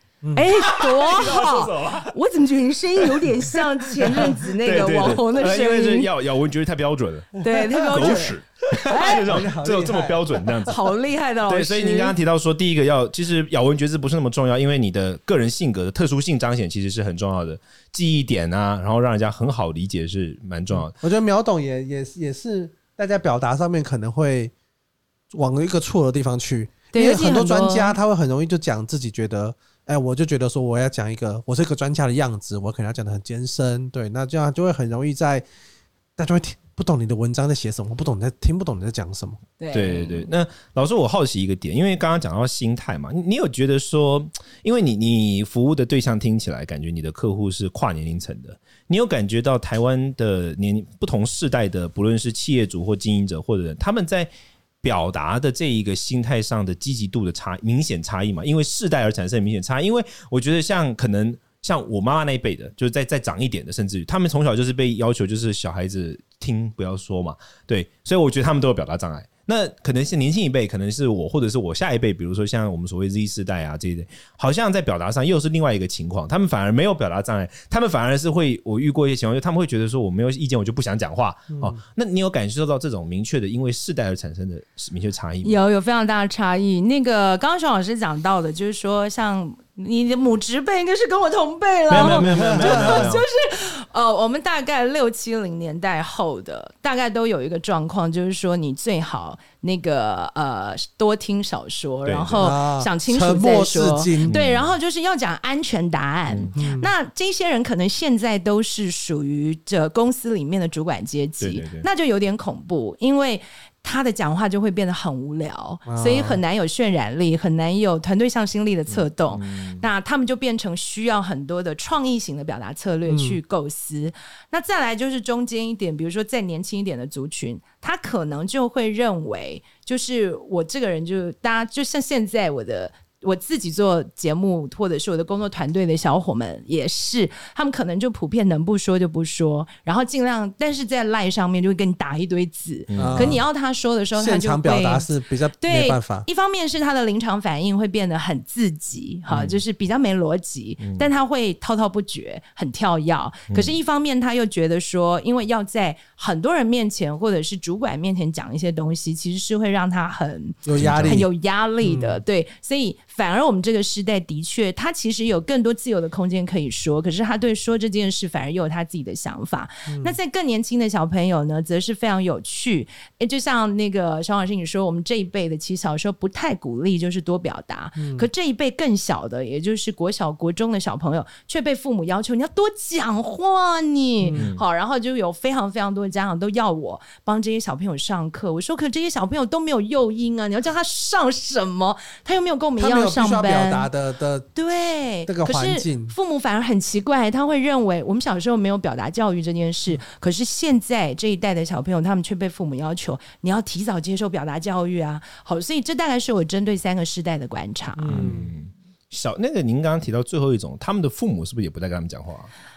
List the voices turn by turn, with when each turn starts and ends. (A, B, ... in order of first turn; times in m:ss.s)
0:00.2-0:00.5 A
0:00.3-0:06.1 B
0:00.5-0:02.1 C
0:03.0-0:10.8 C
0:07.4-0:09.3 B
0:07.5-0:08.1 A
0:09.0-0:10.6 A
0:10.6-0:12.1 B
0:11.5-0:20.9 C
0:20.7-0:24.5 A
0:25.3-0:35.4 A
0:26.9-0:28.0 B
0:36.2-0:39.4 A
0:39.6-0:40.3 B
0:39.7-0:54.3 C
0:54.8-1:25.6 C
1:21.5-1:21.8 A
1:25.4-2:25.1 B
1:31.9-1:33.2 C
1:32.0-1:33.1 A
1:42.0-1:42.5 C
1:42.4-1:44.4 A
1:44.3-1:44.7 C
1:46.3-1:46.5 C
1:46.5-1:46.9 A
1:51.4-1:51.9 C
1:55.9-1:56.4 A
1:58.9-1:59.9 C
2:03.1-2:03.4 A
2:22.9-2:23.4 C
2:23.0-2:23.4 A
2:24.2-2:26.2 A
2:25.6-3:13.9 B
2:29.3-2:29.6 C
2:30.8-2:31.1 C
2:33.5-2:33.8 C
2:40.6-2:41.3 A
2:40.8-2:41.2 C
2:41.8-2:42.2 A
2:49.9-2:50.2 A
2:58.0-2:58.3 A
3:04.2-3:04.5 A
3:04.3-3:04.6 C
3:12.8-3:14.5 A
3:14.5-3:28.2 B
3:15.3-3:16.1 A
3:28.0-3:28.5 A
3:28.1-3:32.5 C